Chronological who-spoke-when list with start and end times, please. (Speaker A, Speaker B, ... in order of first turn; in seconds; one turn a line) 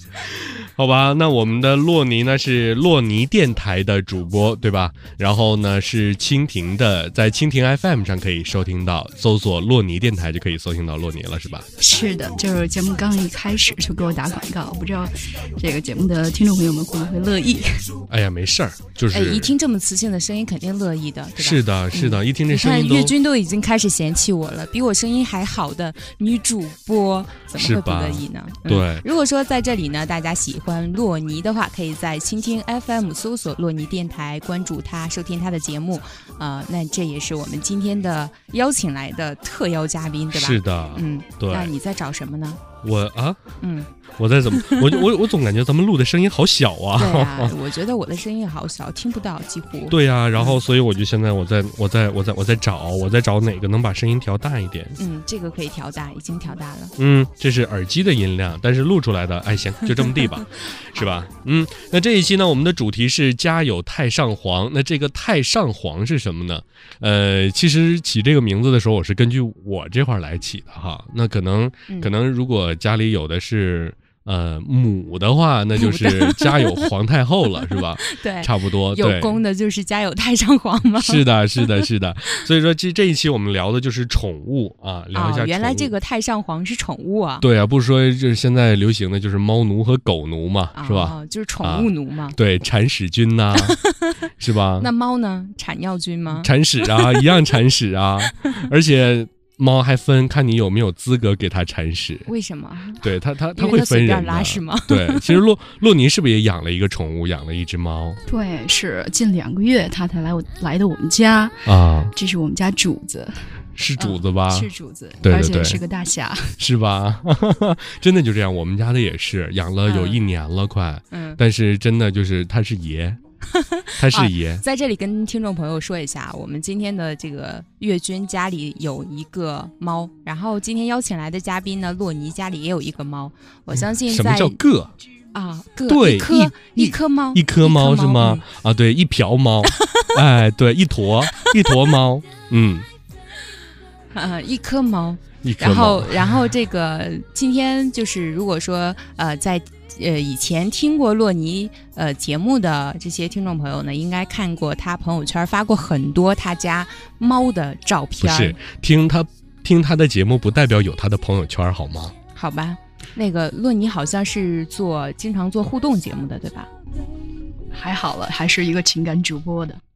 Speaker A: 0.2-11.7
Speaker B: 11.8-17.9
Speaker A: 18.1-19.5
Speaker C: 19.1-42.6
Speaker A: 21.4-23.1
Speaker A: 27.5-29.0
Speaker A: 40.3-41.7
Speaker A: 42.8-43.4
Speaker C: 43.6-43.9
Speaker A: 44.2-47.5
Speaker C: 44.5-45.0
Speaker C: 46.9-50.6
Speaker A: 49.9-55.0
Speaker C: 55.0-56.9
Speaker A: 57.0-79.4
Speaker C: 75.8-76.9
Speaker C: 77.6-81.9
Speaker A: 81.0-85.9
Speaker C: 85.1-87.5
Speaker A: 87.4-93.8
Speaker C: 90.7-92.3
Speaker C: 93.5-94.2
Speaker A: 94.4-94.9
Speaker C: 94.8-97.2
Speaker A: 96.3-102.3
Speaker C: 102.3-105.4
Speaker A: 103.0-108.2
Speaker B: 108.3-116.6
Speaker A: 111.7-112.1
Speaker A: 113.8-114.7
Speaker A: 115.2-115.8
Speaker A: 116.6-123.2
Speaker C: 119.8-120.2
Speaker C: 121.1-121.4
Speaker C: 123.5-134.6
Speaker A: 124.0-124.6
Speaker A: 133.7-134.9
Speaker C: 135.3-138.4
Speaker A: 135.9-142.9
Speaker C: 144.1-158.6
Speaker A: 145.4-146.4
Speaker A: 158.2-162.1
Speaker C: 162.3-166.7
Speaker B: 167.7-169.8